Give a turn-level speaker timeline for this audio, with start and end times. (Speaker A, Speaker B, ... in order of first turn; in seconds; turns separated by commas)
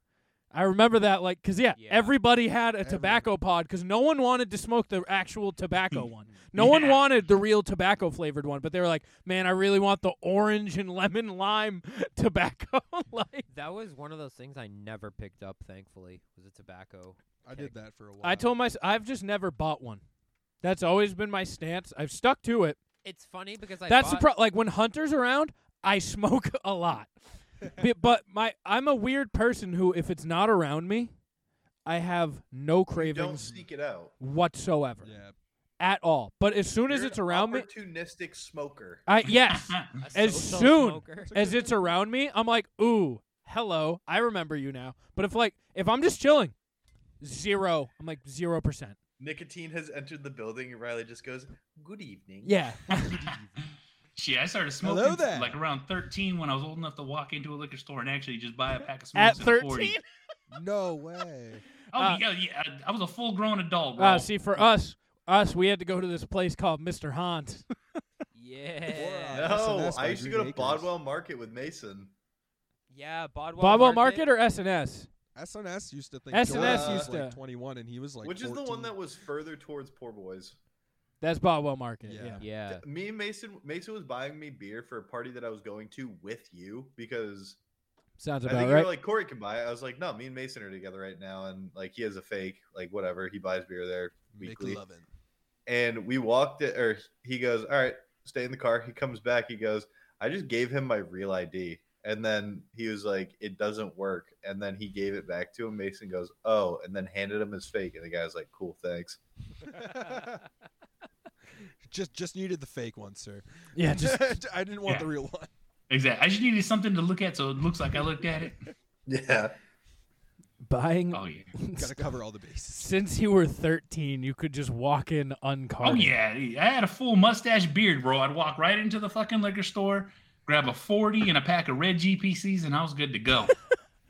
Speaker A: 0.5-13.5, Speaker B: 1.7-2.2, Speaker C: 2.8-3.3, Speaker D: 6.5-7.0, Speaker B: 13.5-17.8, Speaker C: 17.4-18.5, Speaker A: 18.2-20.0, Speaker A: 20.6-22.8, Speaker B: 23.0-24.3, Speaker A: 23.9-27.2, Speaker A: 27.8-31.1, Speaker A: 31.9-33.6, Speaker E: 33.0-34.1, Speaker A: 34.2-35.1, Speaker C: 35.0-35.4, Speaker A: 35.8-37.7, Speaker E: 36.9-39.0, Speaker A: 39.1-46.5, Speaker D: 39.3-39.9, Speaker B: 40.0-41.6, Speaker A: 47.2-49.0, Speaker E: 49.2-52.5, Speaker A: 52.4-53.2, Speaker C: 52.9-53.7, Speaker D: 54.2-60.0, Speaker C: 54.8-55.6, Speaker A: 59.1-60.0, Speaker C: 60.5-61.6, Speaker D: 61.9-64.3, Speaker A: 64.0-67.7, Speaker B: 68.3-69.6, Speaker C: 68.9-70.9, Speaker E: 69.3-72.1, Speaker B: 72.9-74.3, Speaker A: 73.6-75.1, Speaker C: 75.3-78.9, Speaker A: 76.3-77.4, Speaker E: 76.5-77.1, Speaker E: 78.2-80.6, Speaker A: 81.2-82.5, Speaker C: 82.0-82.5, Speaker B: 82.4-82.8, Speaker E: 82.7-87.6, Speaker A: 88.2-88.9, Speaker E: 88.5-94.8, Speaker C: 94.3-95.1, Speaker E: 95.7-109.2, Speaker C: 109.7-110.4, Speaker C: 111.8-115.5, Speaker A: 113.8-114.3, Speaker D: 115.9-118.6, Speaker E: 119.1-119.5, Speaker A: 120.6-122.1, Speaker D: 121.1-121.5, Speaker C: 121.8-122.9, Speaker A: 122.8-126.1, Speaker D: 125.8-133.5